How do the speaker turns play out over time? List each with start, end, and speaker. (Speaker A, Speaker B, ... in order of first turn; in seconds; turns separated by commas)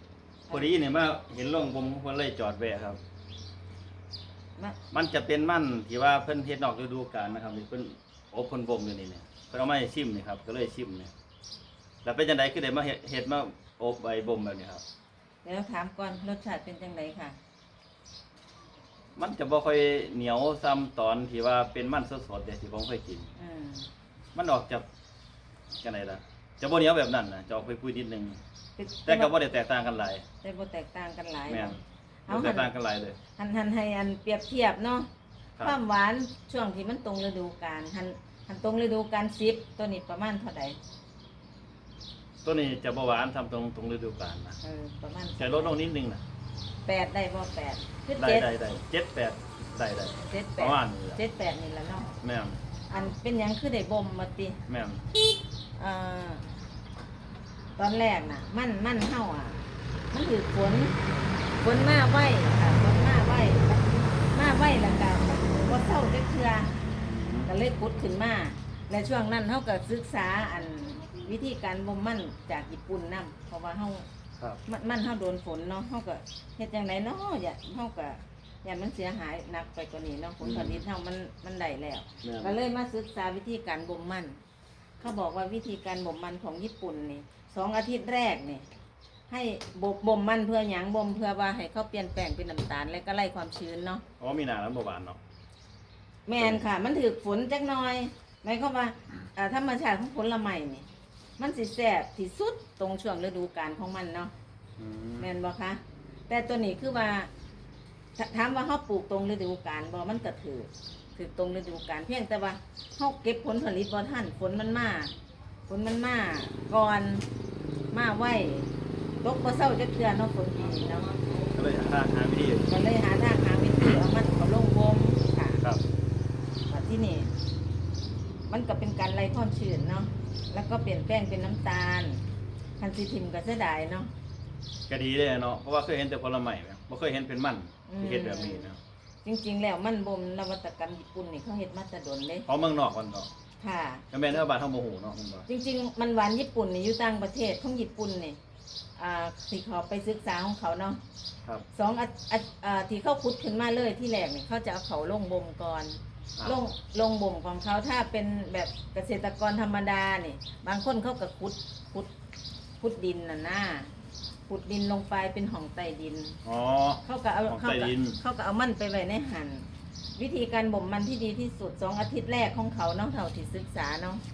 Speaker A: 0.5-0.7, Speaker B: 0.5-3.0, Speaker B: 4.9-11.1, Speaker B: 12.0-14.8, Speaker A: 15.4-17.4, Speaker B: 19.2-23.3, Speaker A: 23.4-23.9, Speaker B: 24.3-24.9, Speaker B: 25.8-28.4, Speaker A: 28.8-29.3, Speaker B: 29.1-30.2, Speaker A: 30.4-32.7, Speaker B: 31.5-33.2, Speaker A: 33.4-35.1, Speaker A: 35.6-40.8, Speaker B: 42.4-44.6, Speaker A: 44.6-45.8, Speaker B: 45.4-46.2, Speaker A: 46.9-48.5, Speaker B: 48.2-51.2, Speaker A: 50.2-52.1, Speaker B: 52.2-52.6, Speaker A: 52.9-54.6, Speaker B: 54.7-55.0, Speaker A: 55.8-56.5, Speaker A: 57.8-61.0, Speaker A: 61.6-66.8, Speaker B: 67.1-67.5, Speaker A: 67.5-74.0, Speaker A: 74.7-84.4, Speaker B: 80.4-80.8, Speaker B: 82.2-82.6, Speaker A: 85.0-88.7, Speaker A: 89.3-94.0, Speaker B: 94.2-95.2, Speaker A: 96.3-100.9, Speaker A: 101.4-104.3, Speaker B: 104.8-105.3, Speaker A: 105.2-107.3, Speaker A: 108.2-115.1, Speaker A: 115.7-117.2, Speaker A: 117.9-118.7, Speaker A: 119.2-121.1, Speaker B: 121.5-122.7, Speaker A: 122.7-125.6, Speaker A: 126.7-127.3, Speaker A: 128.5-132.2, Speaker A: 132.8-134.1, Speaker B: 134.9-138.8, Speaker A: 137.9-138.7, Speaker A: 139.2-142.5, Speaker B: 142.5-143.3, Speaker A: 143.6-144.1, Speaker B: 144.1-145.5, Speaker A: 145.5-148.4, Speaker A: 149.0-151.0, Speaker A: 151.7-162.1, Speaker A: 162.8-163.9, Speaker A: 164.5-166.4, Speaker B: 166.4-168.2, Speaker A: 167.0-169.7, Speaker A: 170.2-174.2